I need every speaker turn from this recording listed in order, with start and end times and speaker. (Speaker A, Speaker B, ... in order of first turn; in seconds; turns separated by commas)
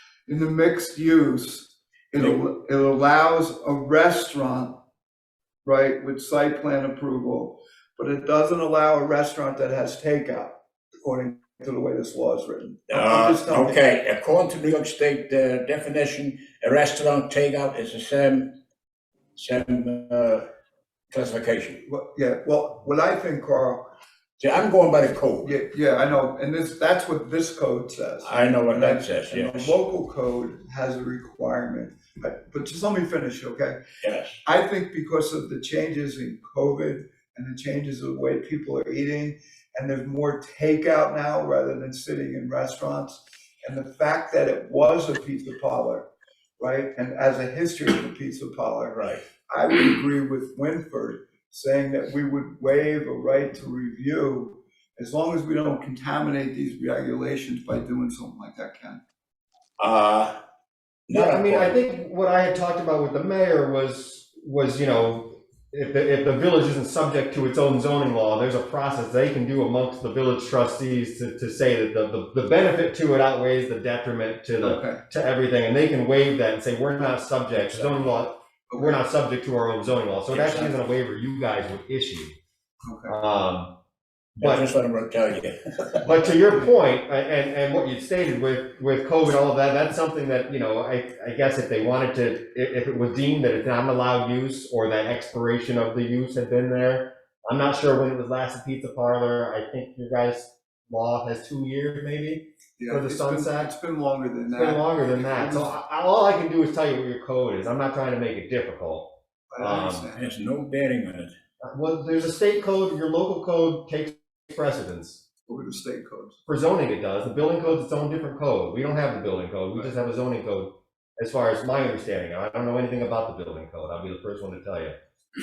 Speaker A: 0.3-4.8, Speaker A: 5.7-13.8, Speaker B: 12.9-18.6, Speaker B: 19.4-20.4, Speaker B: 21.1-21.8, Speaker A: 21.8-23.8, Speaker B: 24.4-25.5, Speaker A: 25.4-33.8, Speaker B: 28.2-29.8, Speaker B: 34.0-34.4, Speaker A: 34.4-46.1, Speaker A: 46.6-49.0, Speaker B: 48.9-49.2, Speaker A: 49.5-59.0, Speaker B: 59.8-60.3, Speaker B: 61.1-61.8, Speaker C: 61.1-82.4, Speaker A: 74.6-75.0, Speaker A: 78.7-79.0, Speaker B: 80.3-80.8, Speaker A: 82.8-83.2, Speaker C: 83.1-83.8, Speaker B: 84.4-86.1, Speaker C: 84.4-84.7, Speaker C: 86.0-103.7, Speaker A: 102.8-105.7, Speaker C: 104.5-110.1, Speaker A: 109.5-110.4, Speaker B: 110.2-111.3, Speaker C: 111.6-115.2, Speaker A: 115.5-116.4, Speaker C: 116.5-125.0